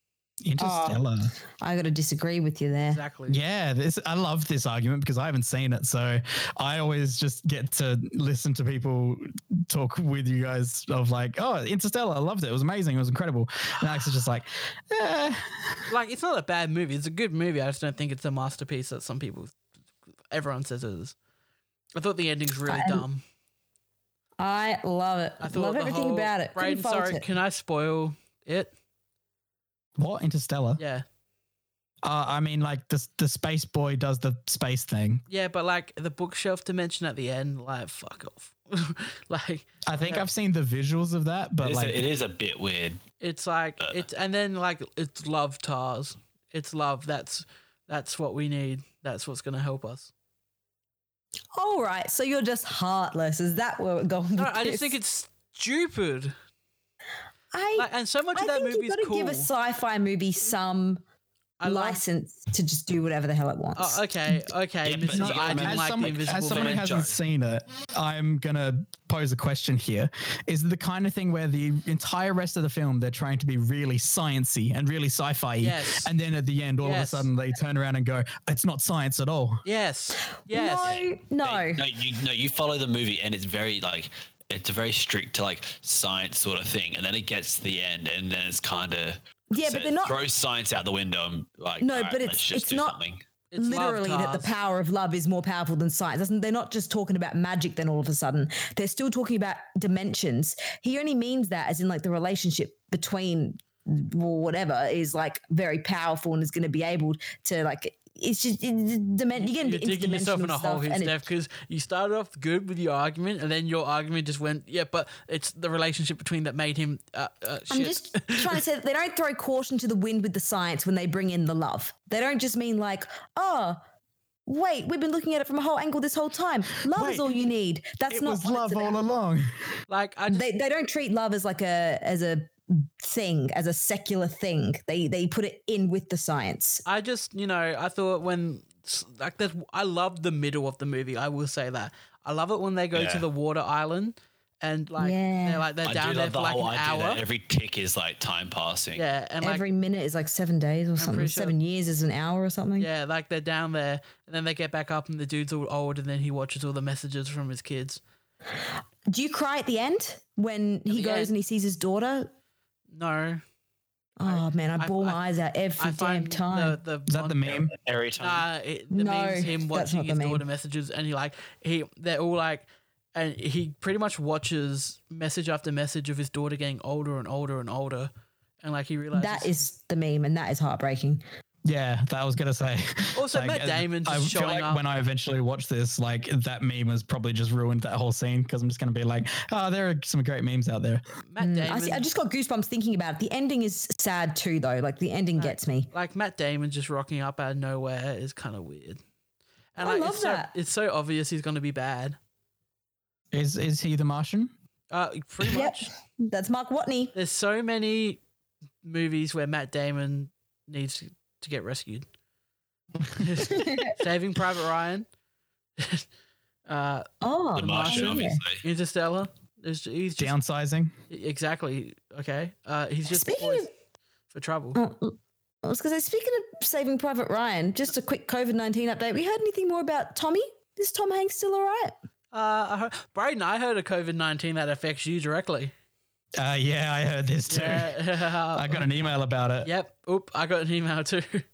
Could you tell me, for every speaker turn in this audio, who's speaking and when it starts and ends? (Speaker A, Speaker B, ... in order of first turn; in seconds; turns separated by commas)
Speaker A: 0.4-1.3, Speaker B: 0.6-1.0, Speaker B: 1.6-3.0, Speaker C: 2.9-3.4, Speaker A: 3.3-15.9, Speaker C: 15.9-19.5, Speaker C: 20.3-21.1, Speaker C: 21.9-23.2, Speaker B: 22.7-23.1, Speaker B: 24.4-27.2, Speaker C: 25.4-28.7, Speaker A: 30.0-30.8, Speaker C: 30.8-31.0, Speaker A: 32.0-35.2, Speaker C: 35.3-40.2, Speaker A: 39.9-42.0, Speaker D: 41.6-43.0, Speaker C: 43.2-50.1, Speaker B: 51.5-54.9, Speaker C: 54.4-56.3, Speaker B: 57.5-61.0, Speaker C: 57.8-59.5, Speaker C: 61.6-62.0, Speaker B: 61.6-64.0, Speaker C: 63.8-66.9, Speaker D: 64.8-67.2, Speaker A: 65.1-79.6, Speaker C: 75.6-76.1, Speaker C: 76.8-77.3, Speaker C: 79.6-81.0, Speaker B: 80.5-81.8, Speaker D: 80.8-93.2, Speaker B: 89.5-90.2, Speaker B: 91.8-93.0, Speaker C: 93.5-94.5, Speaker B: 93.6-111.2, Speaker C: 109.3-118.6, Speaker B: 117.7-123.8, Speaker B: 124.5-129.0, Speaker A: 126.9-127.3, Speaker A: 128.1-129.5, Speaker C: 129.9-130.4, Speaker B: 130.3-136.8, Speaker C: 136.8-147.2, Speaker D: 142.9-143.2, Speaker B: 145.0-145.7, Speaker D: 145.8-149.0, Speaker C: 148.9-149.6, Speaker B: 149.4-152.9, Speaker C: 151.0-151.6, Speaker C: 152.8-158.0, Speaker B: 159.1-162.3, Speaker C: 160.9-161.3, Speaker C: 162.9-163.4, Speaker B: 164.2-166.8, Speaker C: 164.2-165.2, Speaker C: 165.8-167.5, Speaker A: 167.1-167.7, Speaker D: 167.4-168.4, Speaker C: 168.2-178.1, Speaker B: 168.9-170.4, Speaker C: 178.6-179.6, Speaker B: 179.1-181.2, Speaker A: 181.6-191.0, Speaker C: 183.1-184.8, Speaker C: 191.2-192.1, Speaker B: 191.4-195.9, Speaker C: 195.4-199.0, Speaker C: 199.7-202.2, Speaker B: 199.8-200.5, Speaker A: 203.3-204.5, Speaker C: 204.9-205.9, Speaker B: 205.4-207.1, Speaker C: 207.1-208.2, Speaker C: 208.8-212.1, Speaker C: 213.1-215.1, Speaker B: 213.5-213.9, Speaker C: 215.8-216.0, Speaker C: 216.7-220.3, Speaker B: 217.2-218.4, Speaker D: 217.6-218.6, Speaker A: 220.2-220.9, Speaker C: 221.1-223.7, Speaker B: 223.1-223.7, Speaker C: 224.3-224.8, Speaker B: 224.7-231.9, Speaker C: 232.3-235.7, Speaker A: 236.4-238.0, Speaker C: 237.5-238.9, Speaker A: 238.5-239.7, Speaker C: 239.6-241.4